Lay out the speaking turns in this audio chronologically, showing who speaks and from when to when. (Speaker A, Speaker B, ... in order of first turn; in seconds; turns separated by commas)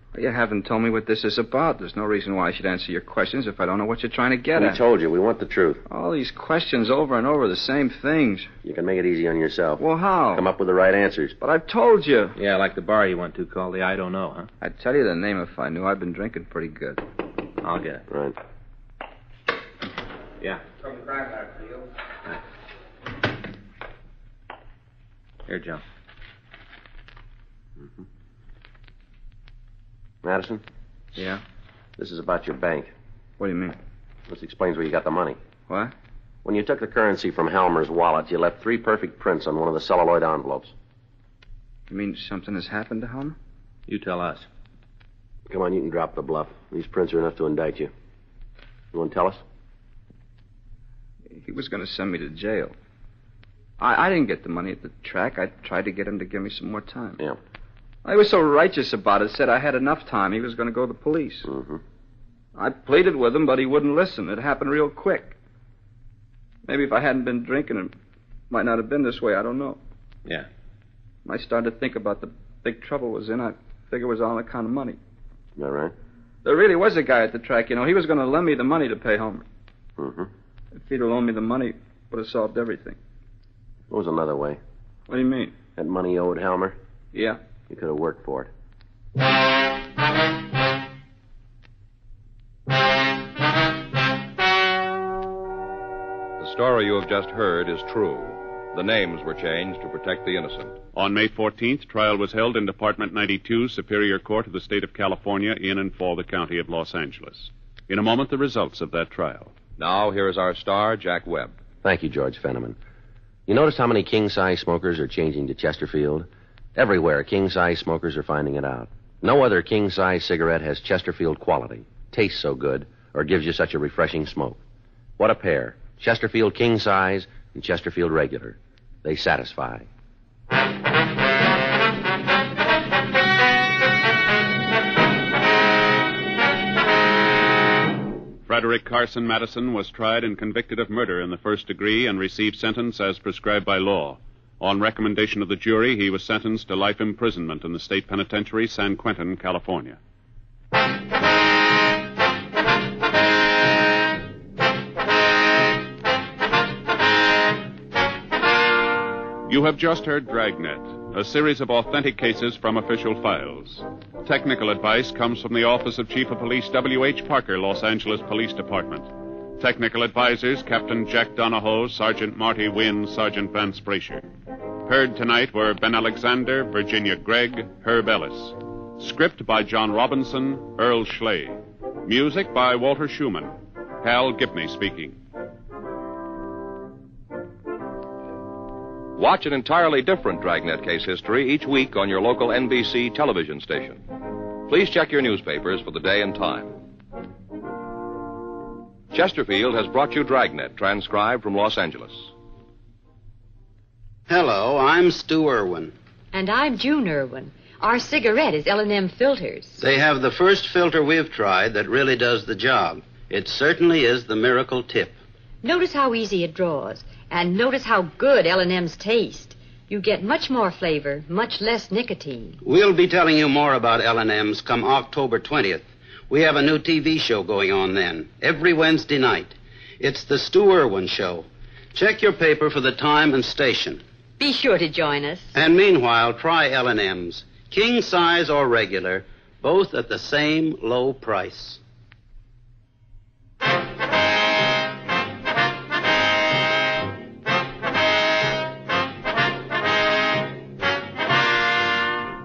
Speaker A: 0.1-4.8, Speaker B: 4.6-5.8, Speaker A: 5.9-8.5, Speaker B: 8.6-11.4, Speaker A: 9.8-10.5, Speaker A: 11.4-12.3, Speaker C: 12.4-14.5, Speaker A: 14.6-17.0, Speaker C: 17.6-18.0, Speaker B: 18.1-18.4, Speaker A: 21.1-21.8, Speaker C: 25.5-25.8, Speaker B: 30.2-30.6, Speaker A: 31.1-31.4, Speaker B: 32.0-32.9, Speaker A: 33.4-33.8, Speaker B: 34.3-35.4, Speaker B: 36.5-40.7, Speaker A: 41.9-43.4, Speaker C: 43.9-44.5, Speaker B: 45.5-47.9, Speaker B: 48.9-49.4, Speaker A: 51.3-52.7, Speaker A: 53.8-57.2, Speaker A: 58.0-61.5, Speaker B: 61.5-61.8, Speaker A: 62.5-65.4, Speaker A: 66.7-67.9, Speaker A: 68.5-69.8, Speaker A: 71.2-75.0, Speaker B: 75.6-75.9, Speaker A: 76.4-79.5, Speaker B: 80.0-80.3, Speaker A: 80.7-83.0, Speaker B: 83.9-84.6, Speaker A: 85.1-85.5, Speaker B: 85.8-86.8, Speaker A: 87.1-87.4, Speaker B: 87.7-88.5, Speaker D: 96.4-100.8, Speaker E: 100.9-109.5, Speaker D: 109.8-111.6, Speaker B: 111.8-112.8, Speaker B: 113.5-124.6, Speaker B: 125.2-129.9, Speaker E: 138.5-150.0, Speaker E: 159.5-174.2, Speaker E: 174.9-185.2, Speaker D: 189.2-194.0, Speaker D: 194.7-196.8, Speaker D: 199.1-202.3, Speaker F: 204.3-205.9, Speaker G: 206.3-209.8, Speaker F: 209.8-215.2, Speaker G: 215.6-222.6, Speaker F: 222.6-234.0, Speaker G: 234.4-235.6, Speaker F: 235.5-241.8